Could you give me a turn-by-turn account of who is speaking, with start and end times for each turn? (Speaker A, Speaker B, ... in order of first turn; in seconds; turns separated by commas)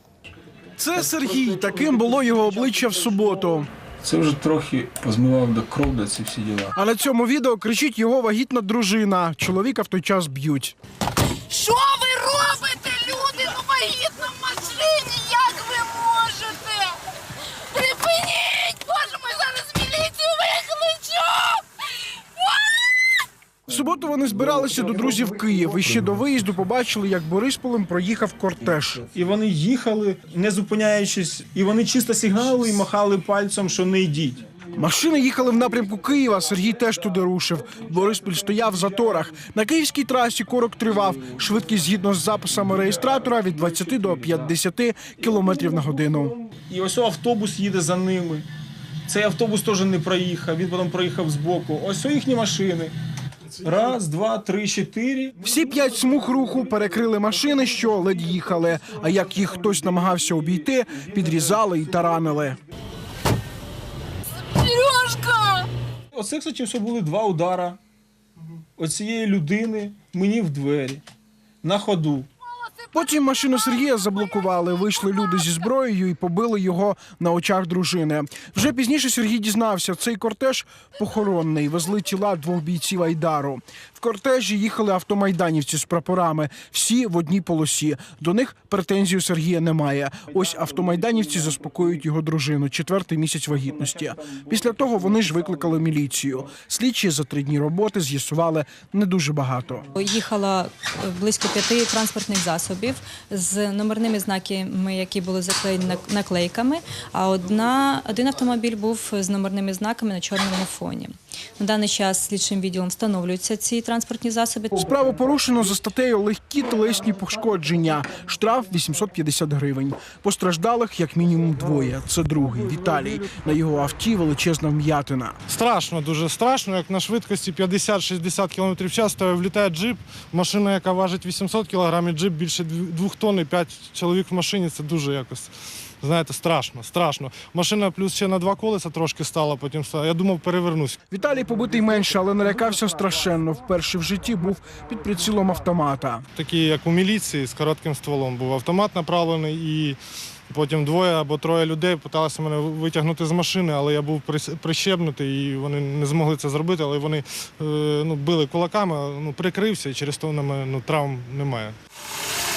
Speaker A: 0.8-3.7, Speaker B: 4.0-6.8, Speaker A: 6.8-10.8, Speaker C: 11.5-17.0, Speaker C: 17.7-21.6, Speaker C: 22.4-22.9, Speaker A: 23.7-29.1, Speaker D: 29.1-34.4, Speaker A: 34.7-46.4, Speaker D: 46.7-48.5, Speaker D: 49.1-53.0, Speaker D: 53.6-55.4, Speaker A: 55.4-62.6, Speaker C: 64.5-65.7, Speaker D: 66.1-67.8, Speaker D: 68.8-71.0, Speaker D: 71.6-72.3, Speaker A: 72.9-99.9, Speaker E: 100.0-114.9, Speaker A: 114.7-125.4, Speaker F: 125.5-135.5, Speaker F: 136.0-141.0, Speaker A: 141.1-146.2, Speaker F: 146.4-150.0, Speaker F: 150.5-161.8